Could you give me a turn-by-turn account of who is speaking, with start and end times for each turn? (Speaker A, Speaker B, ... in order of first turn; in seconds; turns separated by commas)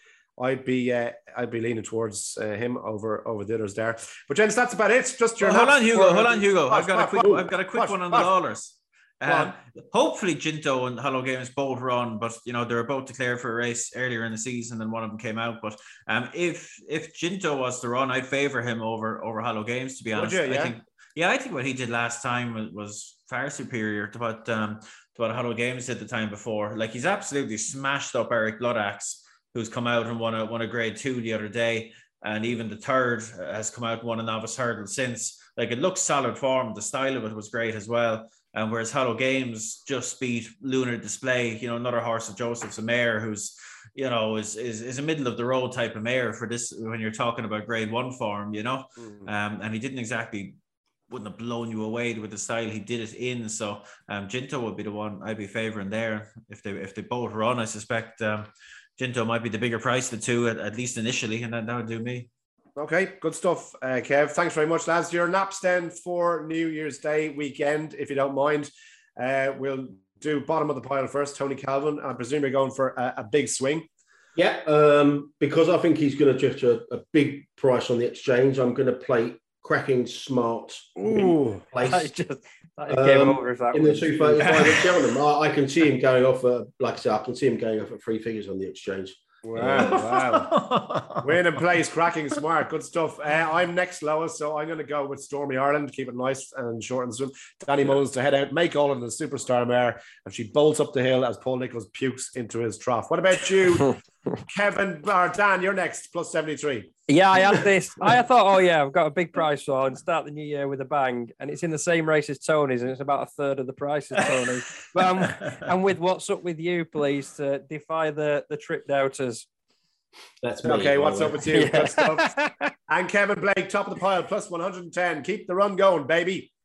Speaker A: 0.4-8.3, Speaker B: 5.4-50.6, Speaker A: 9.2-9.5, Speaker A: 20.1-20.7, Speaker B: 51.1-62.3, Speaker A: 62.8-73.8, Speaker C: 74.3-82.1, Speaker A: 81.1-81.6, Speaker D: 81.8-84.8, Speaker C: 82.9-89.9, Speaker B: 84.4-85.1, Speaker A: 89.4-90.5, Speaker B: 89.7-91.4, Speaker A: 91.2-106.9, Speaker D: 107.1-119.5, Speaker B: 115.2-115.6, Speaker C: 120.4-121.4, Speaker A: 120.6-122.4, Speaker D: 121.5-122.7, Speaker A: 122.9-126.5